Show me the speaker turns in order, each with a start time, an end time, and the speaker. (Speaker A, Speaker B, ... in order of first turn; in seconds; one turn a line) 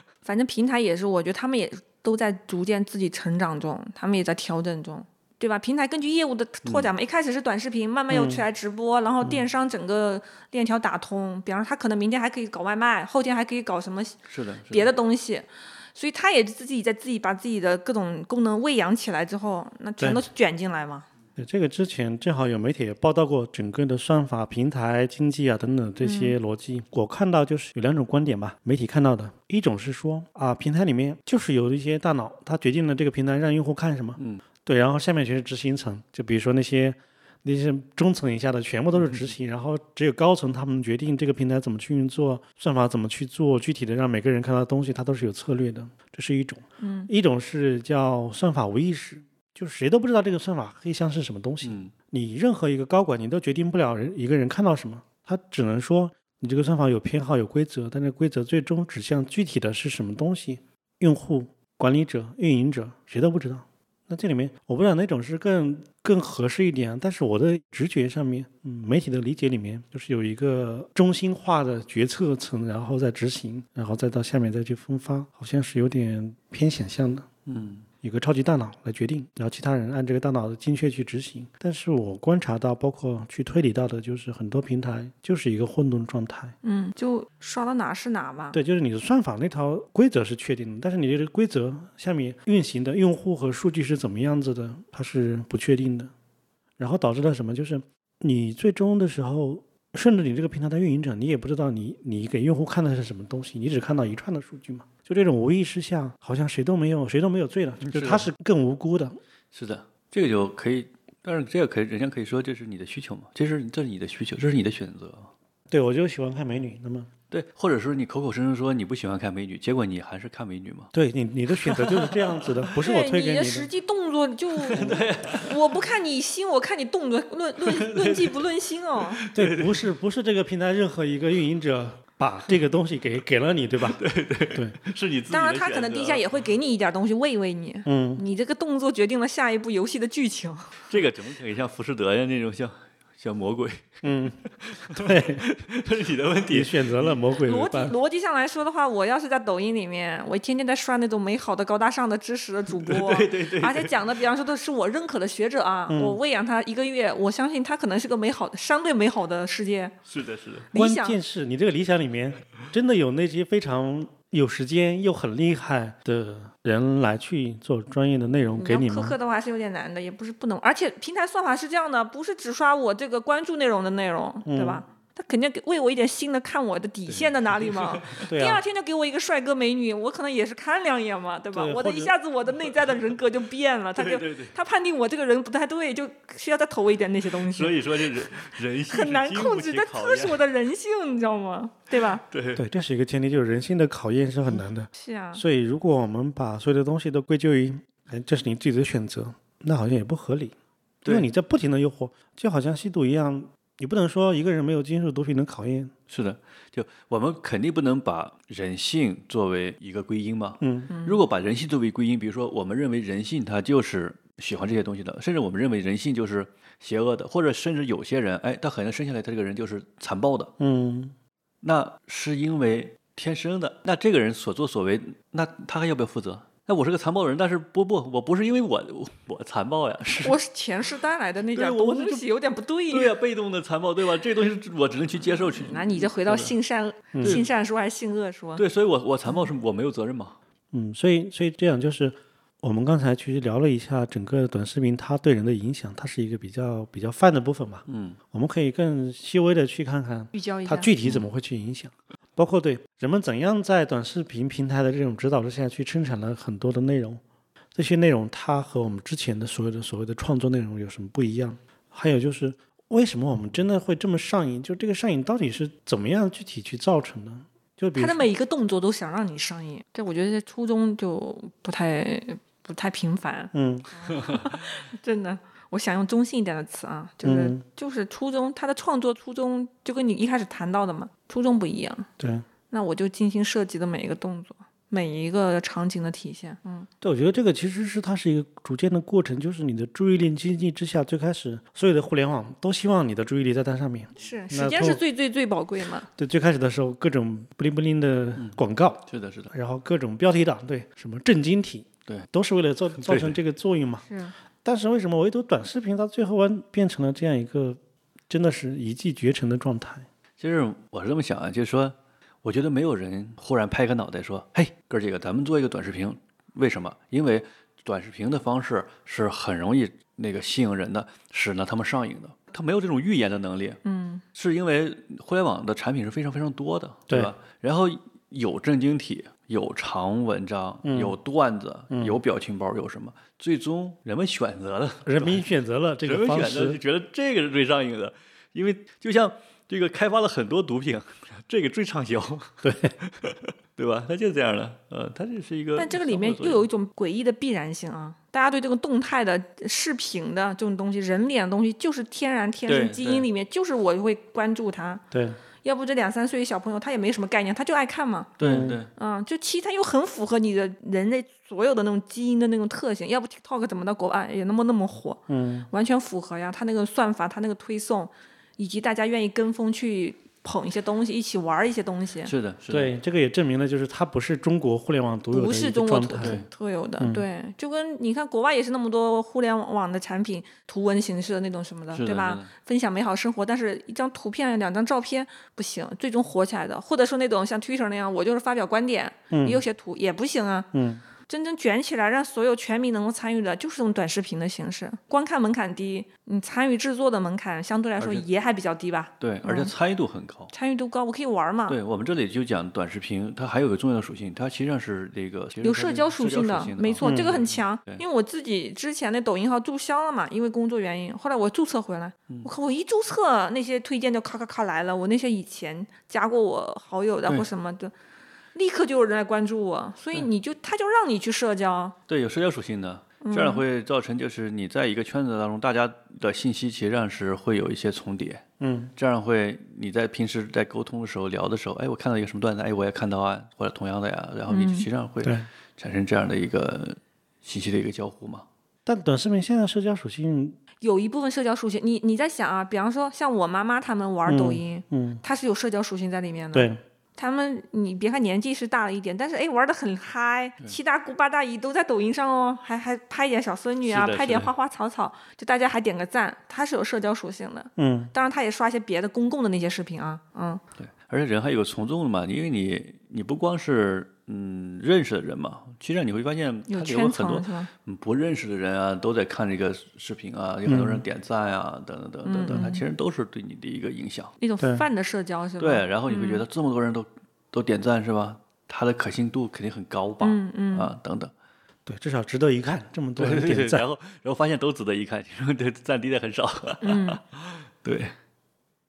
Speaker A: 0.2-21.1
Speaker B: 6.6-6.9
Speaker C: 8.1-8.4
Speaker B: 14.3-14.9
Speaker C: 20.0-20.2
Speaker C: 21.4-77.3
Speaker A: 26.0-26.4
Speaker B: 34.2-34.4
Speaker B: 39.0-39.3
Speaker A: 46.8-47.1
Speaker B: 51.6-51.9
Speaker B: 77.5-77.8
Speaker C: 78.0-86.5
Speaker A: 86.6-88.6
Speaker C: 88.5-96.1
Speaker C: 96.8-109.2
Speaker B: 107.8-108.3
Speaker B: 109.5-115.3
Speaker C: 115.7-117.1
Speaker B: 117.3-120.9
Speaker C: 120.9-123.7
Speaker B: 121.5-122.5
Speaker A: 122.8-129.2
Speaker B: 124.6-125.6
Speaker C: 124.7-125.0
Speaker B: 127.6-128.4
Speaker B: 129.1-129.9
Speaker C: 129.3-134.0
Speaker B: 133.8-136.2
Speaker A: 135.3-140.8
Speaker C: 137.8-138.2
Speaker B: 140.9-143.9
Speaker C: 144.0-144.4
Speaker B: 144.4-147.2
Speaker C: 144.9-145.4
Speaker C: 146.5-147.9
Speaker A: 147.4-159.9
Speaker B: 152.7-153.9
Speaker C: 155.9-156.2
Speaker B: 160.1-160.7
Speaker A: 160.7-161.2
Speaker C: 160.7-169.2
Speaker A: 168.6-192.2
Speaker C: 174.4-174.8
Speaker B: 177.1-178.2
Speaker C: 178.3-178.6
Speaker C: 181.5-182.1
Speaker B: 183.9-184.5
Speaker B: 187.5-190.4
Speaker B: 192.2-192.6
Speaker C: 192.6-200.5
Speaker A: 194.9-195.4
Speaker C: 201.1-205.9
Speaker B: 206.1-220.5
Speaker C: 210.6-210.9
Speaker A: 210.9-211.2
Speaker C: 220.6-221.1
Speaker B: 221.6-230.3
Speaker A: 230.2-233.1
Speaker B: 231.5-232.2
Speaker B: 232.9-236.5
Speaker A: 235.3-238.6
Speaker C: 237.1-237.4
Speaker B: 237.2-237.5
Speaker B: 238.6-240.4
Speaker C: 240.7-257.2
Speaker B: 247.9-248.2
Speaker A: 250.3-250.9
Speaker C: 257.7-268.3
Speaker A: 267.9-282.1
Speaker C: 273.5-273.9
Speaker B: 274.1-274.4
Speaker C: 277.2-277.6
Speaker C: 282.2-282.5
Speaker A: 282.7-286.9
Speaker C: 287.0-295.0
Speaker A: 294.2-296.1
Speaker C: 296.1-304.1
Speaker B: 298.4-299.5
Speaker B: 303.0-303.4
Speaker A: 304.1-304.3
Speaker C: 304.6-310.1
Speaker B: 310.4-323.8
Speaker A: 323.8-324.2
Speaker B: 324.3-335.4
Speaker C: 330.8-331.2
Speaker C: 331.9-332.2
Speaker C: 335.0-336.8
Speaker B: 336.0-346.6
Speaker C: 342.6-342.9
Speaker A: 345.8-355.0
Speaker B: 352.7-353.3
Speaker C: 355.1-355.4
Speaker A: 355.6-372.3
Speaker B: 358.4-358.9
Speaker C: 358.4-358.8
Speaker C: 365.3-365.7
Speaker B: 372.2-372.9
Speaker C: 372.7-376.4
Speaker A: 375.3-399.7
Speaker B: 376.2-376.5
Speaker C: 377.0-377.3
Speaker B: 381.9-382.5
Speaker C: 389.3-389.6
Speaker C: 390.7-391.0
Speaker B: 398.0-398.2
Speaker B: 399.2-400.5
Speaker A: 400.5-401.8
Speaker B: 401.7-408.0
Speaker A: 405.6-417.9
Speaker C: 407.0-407.4
Speaker A: 418.5-421.9
Speaker B: 422.1-428.4
Speaker A: 423.2-423.6
Speaker C: 428.6-428.9
Speaker B: 428.9-438.4
Speaker A: 434.5-434.9
Speaker C: 435.2-435.5
Speaker C: 438.9-440.6
Speaker A: 440.8-460.6
Speaker C: 444.2-445.2
Speaker C: 446.5-446.8
Speaker B: 453.9-454.5
Speaker C: 457.8-458.1
Speaker B: 460.8-474.3
Speaker A: 466.7-467.7
Speaker C: 470.6-471.0
Speaker A: 472.2-472.8
Speaker A: 474.4-476.4
Speaker C: 474.6-474.9
Speaker B: 475.6-481.3
Speaker A: 480.2-480.9
Speaker C: 481.9-483.8
Speaker B: 483.2-488.1
Speaker A: 486.8-487.2